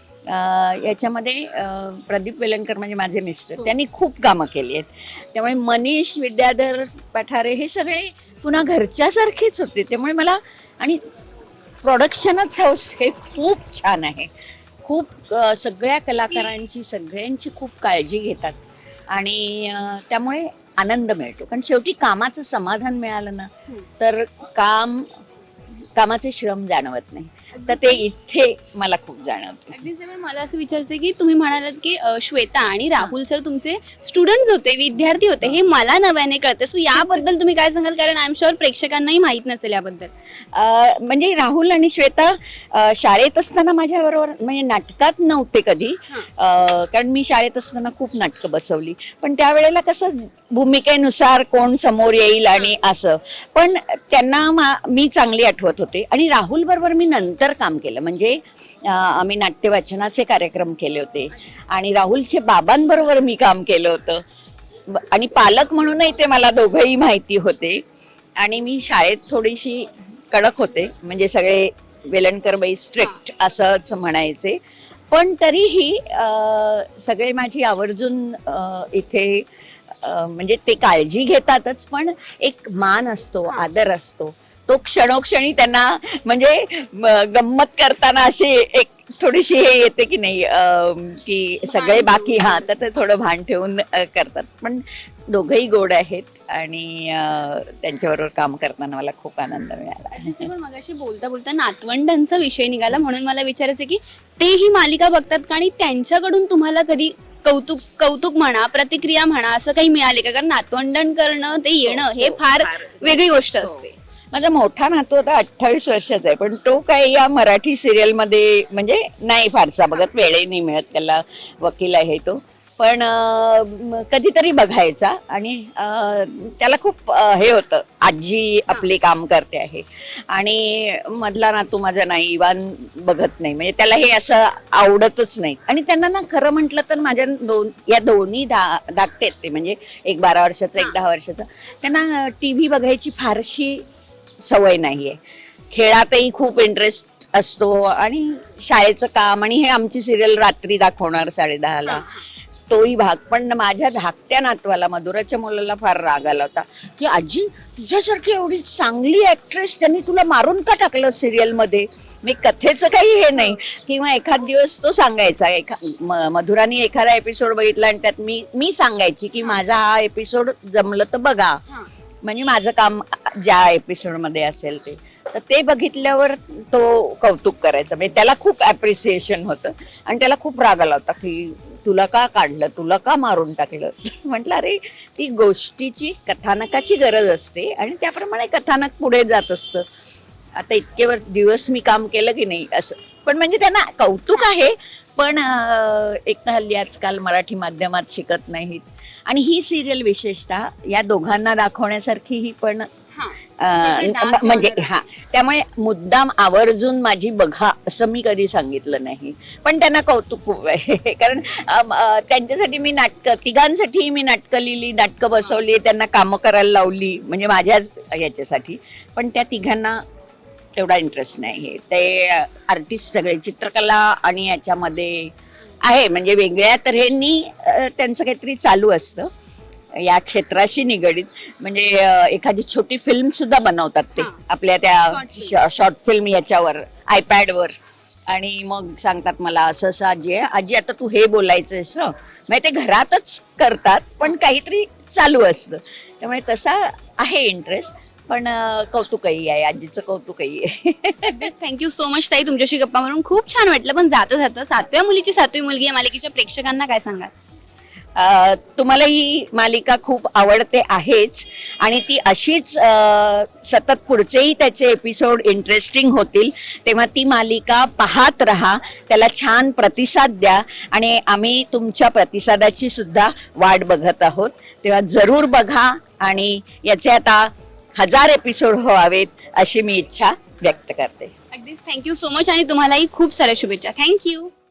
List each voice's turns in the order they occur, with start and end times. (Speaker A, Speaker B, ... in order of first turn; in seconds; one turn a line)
Speaker A: 0.3-11.0
Speaker A: 11.8-14.3
Speaker A: 14.8-25.1
Speaker A: 25.8-29.9
Speaker B: 27.5-28.0
Speaker B: 29.7-40.1
Speaker A: 36.9-37.2
Speaker A: 40.5-64.2
Speaker A: 64.9-67.8
Speaker A: 68.4-100.5
Speaker B: 91.7-92.7
Speaker B: 100.1-113.9
Speaker A: 111.8-143.8
Speaker A: 144.4-171.7
Speaker B: 151.8-152.2
Speaker A: 172.2-189.8
Speaker A: 190.6-202.9
Speaker B: 203.1-205.0
Speaker A: 203.6-220.0
Speaker A: 220.7-229.3
Speaker A: 229.9-237.8
Speaker B: 235.1-235.6
Speaker A: 238.3-251.5
Speaker B: 251.3-257.3
Speaker A: 258.1-281.3
Speaker B: 281.5-284.5